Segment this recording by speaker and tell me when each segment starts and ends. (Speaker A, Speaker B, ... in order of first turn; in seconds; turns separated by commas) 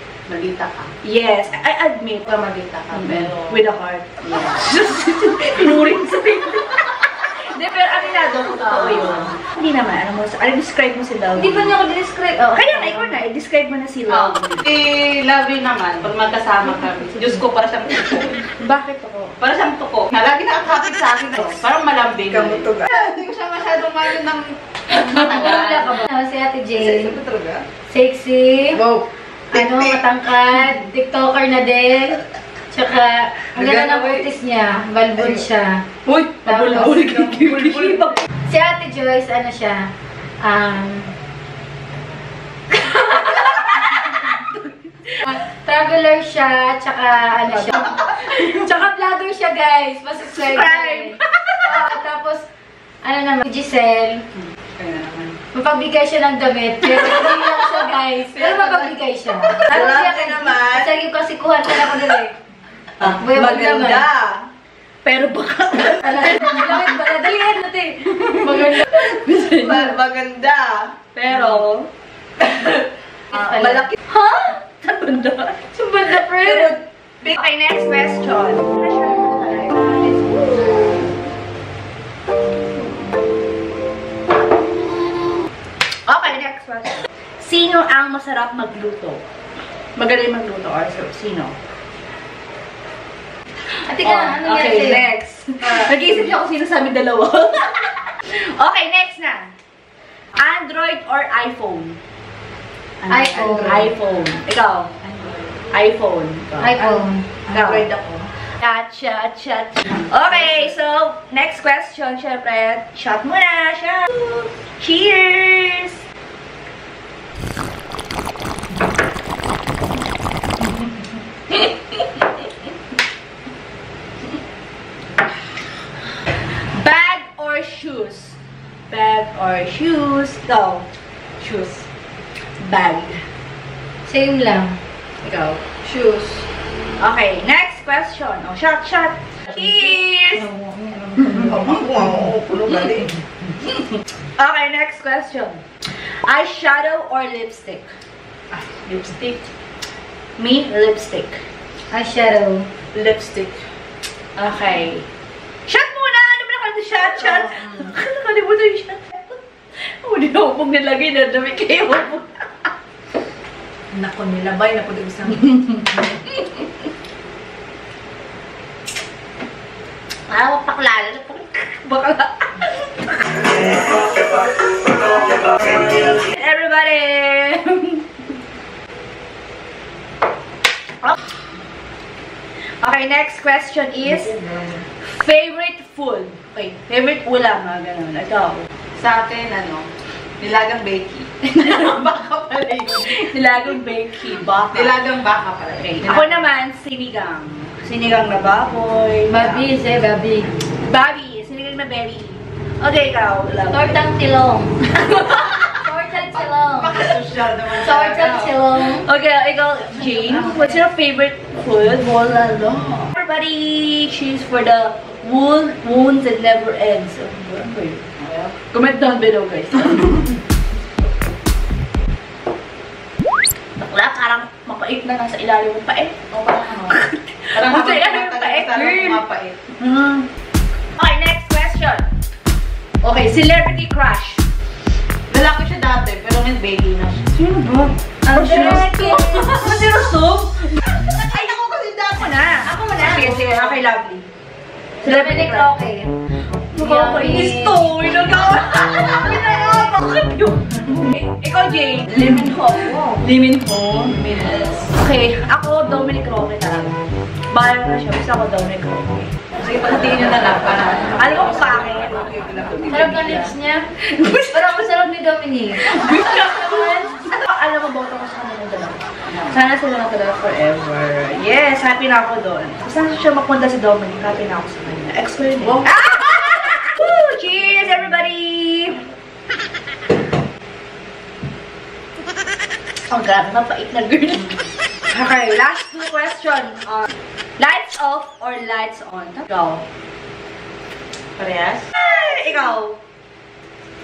Speaker A: 0.3-0.9, Speaker B: 1.0-2.4, Speaker A: 2.2-3.6, Speaker B: 2.9-11.8, Speaker A: 4.2-4.6, Speaker A: 8.7-9.3, Speaker C: 11.4-13.2, Speaker B: 12.5-14.6, Speaker A: 14.1-18.4, Speaker B: 18.6-19.4, Speaker A: 19.4-26.1, Speaker C: 24.9-27.2, Speaker A: 26.8-27.6, Speaker C: 27.9-28.8, Speaker C: 29.5-32.2, Speaker C: 32.7-35.8, Speaker B: 36.0-38.2, Speaker C: 36.5-37.4, Speaker C: 38.5-41.1, Speaker B: 42.8-44.6, Speaker C: 45.2-52.4, Speaker B: 50.3-51.8, Speaker C: 53.0-54.2, Speaker A: 54.4-55.4, Speaker C: 55.5-62.3, Speaker A: 58.3-58.9, Speaker A: 59.5-60.9, Speaker C: 63.0-64.1, Speaker A: 63.0-64.4, Speaker B: 65.0-67.0, Speaker C: 66.0-69.7, Speaker B: 68.8-69.8, Speaker A: 69.5-70.9, Speaker B: 71.2-71.9, Speaker C: 73.3-74.6, Speaker B: 74.7-75.6, Speaker C: 75.7-76.8, Speaker B: 77.2-81.0, Speaker B: 86.1-89.2, Speaker B: 90.0-91.5, Speaker C: 93.8-95.1, Speaker B: 94.0-99.5, Speaker B: 100.3-102.0, Speaker A: 103.0-103.9, Speaker C: 103.1-103.8, Speaker B: 103.4-104.9, Speaker A: 105.0-105.5, Speaker B: 105.7-107.9, Speaker C: 106.6-107.3, Speaker A: 107.5-108.3, Speaker B: 108.6-116.0, Speaker A: 110.0-110.7, Speaker B: 121.5-122.2, Speaker B: 126.3-128.4, Speaker B: 128.9-130.8, Speaker A: 131.4-131.8, Speaker B: 132.6-133.2, Speaker C: 134.1-136.4, Speaker B: 137.0-140.4, Speaker C: 139.5-139.8, Speaker C: 140.3-141.7, Speaker A: 141.4-143.1, Speaker B: 143.7-147.9, Speaker A: 148.6-149.4, Speaker B: 150.4-151.4, Speaker C: 151.9-152.7, Speaker A: 152.9-153.6, Speaker B: 154.4-155.1, Speaker B: 155.7-162.7, Speaker C: 164.2-165.0, Speaker B: 165.5-166.5, Speaker B: 170.3-178.1, Speaker B: 182.8-184.4, Speaker A: 184.3-184.8, Speaker B: 185.0-188.7, Speaker A: 189.0-189.9, Speaker A: 190.4-193.3, Speaker B: 193.0-195.0, Speaker A: 194.7-196.3, Speaker B: 195.8-199.7, Speaker C: 199.3-200.5, Speaker B: 200.8-203.9, Speaker C: 203.7-204.9, Speaker B: 205.1-205.6, Speaker C: 205.6-207.0, Speaker A: 206.8-208.5, Speaker C: 207.7-209.0, Speaker B: 208.8-218.1, Speaker A: 218.2-218.5, Speaker B: 218.7-220.4, Speaker B: 223.8-226.2, Speaker A: 226.3-227.0, Speaker B: 226.9-229.2, Speaker A: 227.5-229.6, Speaker B: 229.8-230.3, Speaker B: 231.0-232.1, Speaker B: 233.0-234.4, Speaker A: 235.3-237.3, Speaker B: 237.3-240.8, Speaker C: 238.3-239.6, Speaker A: 241.1-243.5, Speaker B: 242.1-244.3, Speaker C: 242.7-243.4, Speaker B: 245.0-245.8, Speaker C: 245.0-246.1, Speaker B: 246.7-254.2, Speaker C: 246.8-248.2, Speaker A: 254.2-254.9, Speaker B: 254.8-257.0, Speaker B: 257.5-259.4, Speaker A: 259.5-263.5, Speaker B: 261.1-262.3, Speaker C: 262.9-263.9, Speaker B: 264.0-264.9, Speaker C: 264.5-267.1, Speaker B: 265.8-279.1, Speaker B: 283.1-284.5, Speaker B: 285.1-289.8, Speaker A: 291.4-291.9, Speaker B: 291.9-293.0